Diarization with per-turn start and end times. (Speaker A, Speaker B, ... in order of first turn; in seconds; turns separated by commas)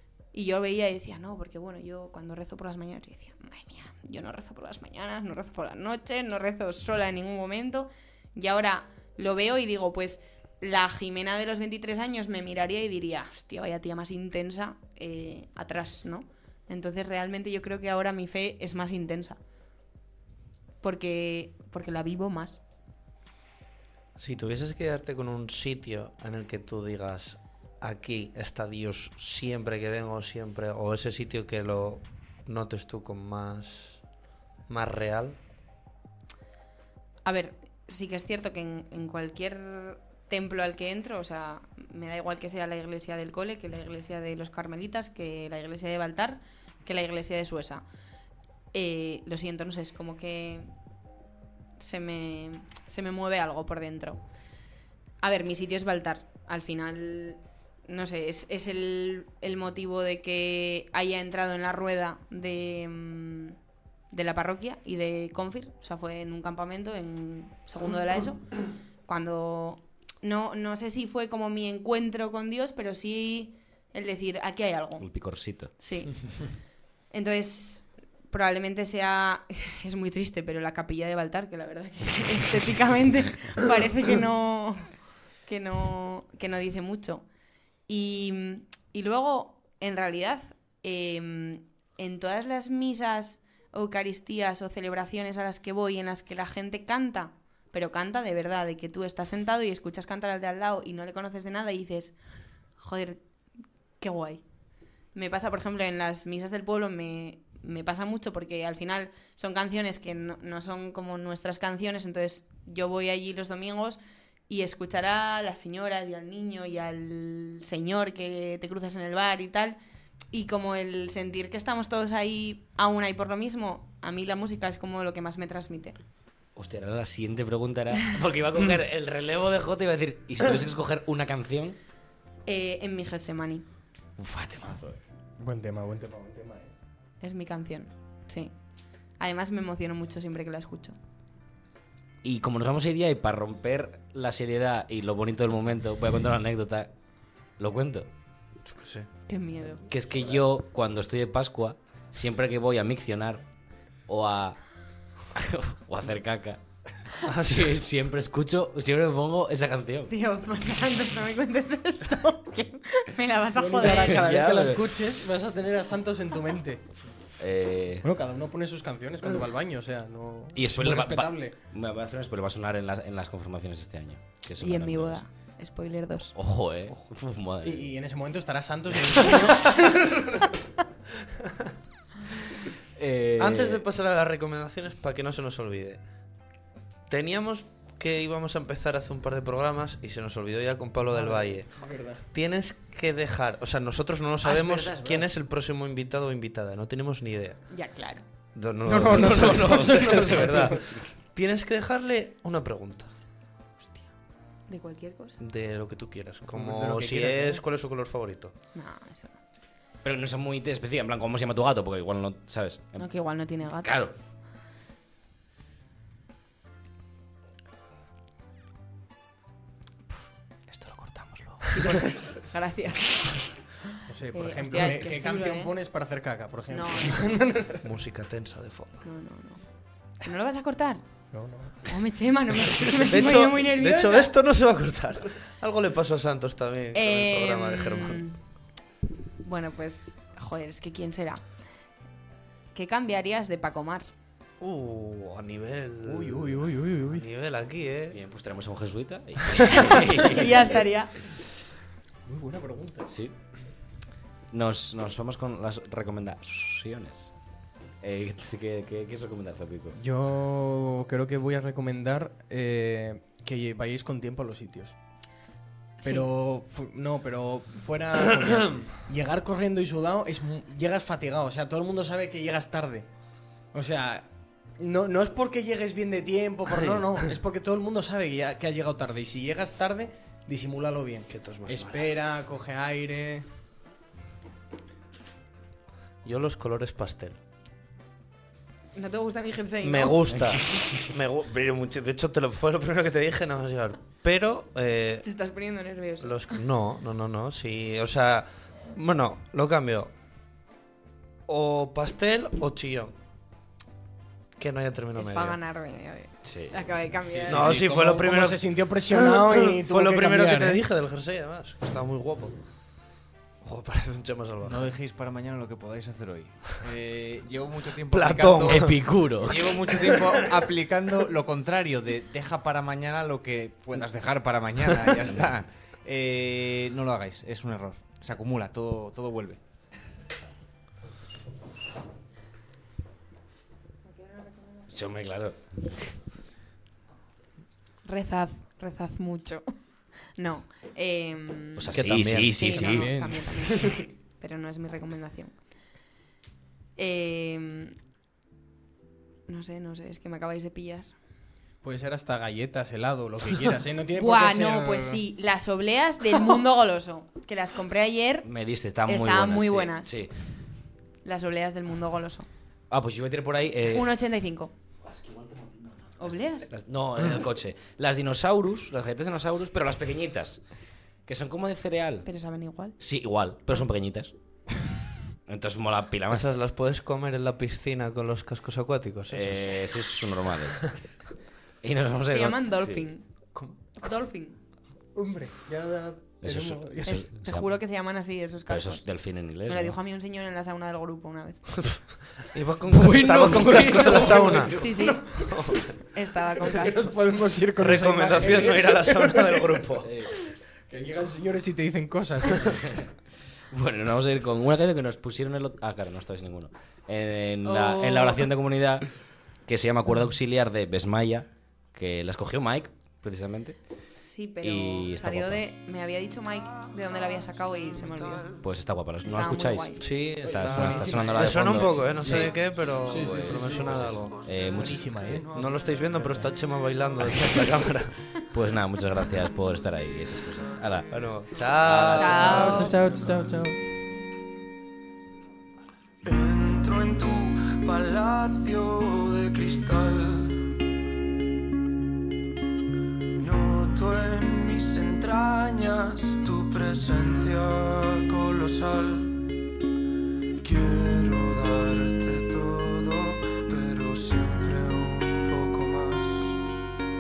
Speaker A: 0.3-19.4, Speaker A: 20.8-22.6, Speaker B: 24.2-34.0, Speaker B: 34.7-35.4, Speaker A: 37.2-47.8, Speaker A: 48.7-50.7, Speaker A: 51.8-54.2, Speaker A: 55.2-63.6, Speaker A: 64.1-76.5, Speaker C: 75.0-75.7, Speaker A: 77.1-87.2, Speaker A: 87.9-102.2, Speaker A: 102.8-103.2, Speaker A: 104.0-104.4, Speaker A: 105.1-119.8, Speaker A: 120.3-126.0, Speaker C: 126.6-131.8, Speaker A: 132.5-133.7, Speaker C: 134.2-135.0, Speaker D: 135.4-136.7, Speaker A: 137.2-138.6, Speaker A: 139.2-140.9, Speaker C: 142.2-146.9, Speaker C: 147.6-148.1, Speaker B: 148.7-149.1, Speaker A: 149.3-149.9, Speaker C: 149.9-153.4, Speaker C: 154.1-160.1, Speaker B: 157.2-157.7, Speaker A: 160.1-164.2, Speaker D: 163.6-167.0, Speaker C: 163.9-165.1, Speaker C: 167.4-168.1, Speaker D: 168.0-171.6, Speaker C: 170.6-175.2, Speaker A: 174.6-176.3, Speaker C: 176.3-177.9, Speaker D: 177.6-180.5, Speaker C: 183.0-183.8, Speaker D: 183.0-183.6, Speaker B: 183.4-186.1, Speaker B: 187.1-197.8, Speaker D: 191.1-192.2, Speaker C: 194.4-195.3, Speaker A: 197.7-198.2, Speaker B: 198.6-203.2, Speaker D: 198.8-201.0, Speaker C: 199.0-201.1, Speaker A: 204.7-205.4, Speaker B: 205.4-208.6, Speaker D: 206.5-207.6, Speaker A: 208.7-209.4, Speaker C: 210.0-214.1, Speaker A: 213.0-213.9, Speaker C: 220.7-222.1, Speaker A: 221.7-223.8, Speaker D: 224.1-227.8, Speaker A: 224.3-225.7, Speaker A: 226.7-227.4, Speaker B: 227.8-229.0, Speaker A: 229.0-231.0, Speaker D: 231.3-232.0, Speaker A: 231.8-234.3, Speaker B: 233.0-238.2, Speaker A: 236.9-238.4, Speaker A: 239.4-241.5, Speaker A: 242.7-244.1, Speaker B: 244.6-248.2, Speaker D: 246.0-247.2, Speaker C: 248.1-250.9, Speaker A: 249.9-251.1, Speaker D: 252.2-253.1, Speaker C: 253.1-253.3, Speaker C: 254.5-257.4, Speaker C: 258.0-260.0, Speaker D: 259.9-265.0, Speaker A: 266.0-266.3, Speaker D: 266.0-273.1, Speaker D: 273.7-283.5, Speaker B: 276.8-277.1, Speaker B: 281.3-282.1, Speaker B: 286.2-287.4, Speaker A: 288.9-290.2, Speaker B: 289.8-295.3, Speaker C: 290.3-290.9, Speaker A: 295.2-296.6, Speaker B: 296.2-300.1, Speaker B: 301.5-303.1, Speaker B: 304.6-305.6, Speaker A: 305.2-307.8, Speaker C: 306.4-306.8, Speaker D: 307.3-310.8, Speaker B: 307.5-312.8, Speaker B: 313.6-314.9, Speaker E: 314.6-329.6, Speaker B: 318.1-320.6, Speaker C: 318.7-319.8, Speaker A: 334.1-334.9, Speaker C: 334.9-336.2, Speaker A: 338.1-341.9, Speaker C: 341.8-343.4, Speaker B: 341.9-342.9, Speaker A: 342.5-345.6, Speaker D: 342.8-343.9, Speaker A: 347.0-348.0, Speaker A: 349.5-351.1, Speaker D: 351.8-355.2, Speaker A: 354.2-358.5, Speaker C: 358.4-360.5, Speaker A: 359.1-360.5, Speaker A: 361.2-362.5, Speaker C: 362.9-364.1, Speaker A: 363.9-364.7, Speaker C: 365.0-370.6, Speaker A: 366.2-366.7, Speaker C: 371.3-372.3, Speaker A: 372.2-373.0, Speaker C: 373.0-374.3, Speaker C: 375.5-376.5, Speaker B: 376.3-380.0, Speaker C: 379.3-381.2, Speaker C: 381.8-383.1, Speaker A: 382.3-384.6, Speaker D: 385.1-387.2, Speaker C: 386.4-387.7, Speaker A: 387.1-392.1, Speaker C: 388.7-390.0, Speaker B: 392.0-396.0, Speaker D: 392.9-395.9, Speaker C: 393.4-395.2, Speaker A: 394.8-397.1, Speaker D: 396.6-402.9, Speaker B: 397.8-400.1, Speaker C: 400.0-400.3, Speaker C: 403.7-413.8, Speaker A: 407.6-408.5, Speaker A: 414.2-418.5, Speaker C: 414.6-415.6, Speaker F: 417.1-417.4, Speaker F: 417.9-418.6, Speaker C: 418.6-425.5, Speaker A: 419.2-420.1, Speaker B: 420.0-424.4, Speaker D: 420.4-424.1, Speaker F: 423.3-426.1, Speaker D: 424.8-425.4, Speaker B: 425.5-428.3, Speaker C: 428.5-431.1, Speaker F: 430.5-430.8, Speaker B: 431.1-432.9, Speaker F: 431.5-432.1, Speaker C: 431.9-433.6, Speaker A: 432.1-432.9, Speaker D: 432.4-433.8, Speaker F: 432.8-433.5, Speaker F: 436.2-440.6, Speaker F: 443.3-449.5, Speaker F: 450.6-456.6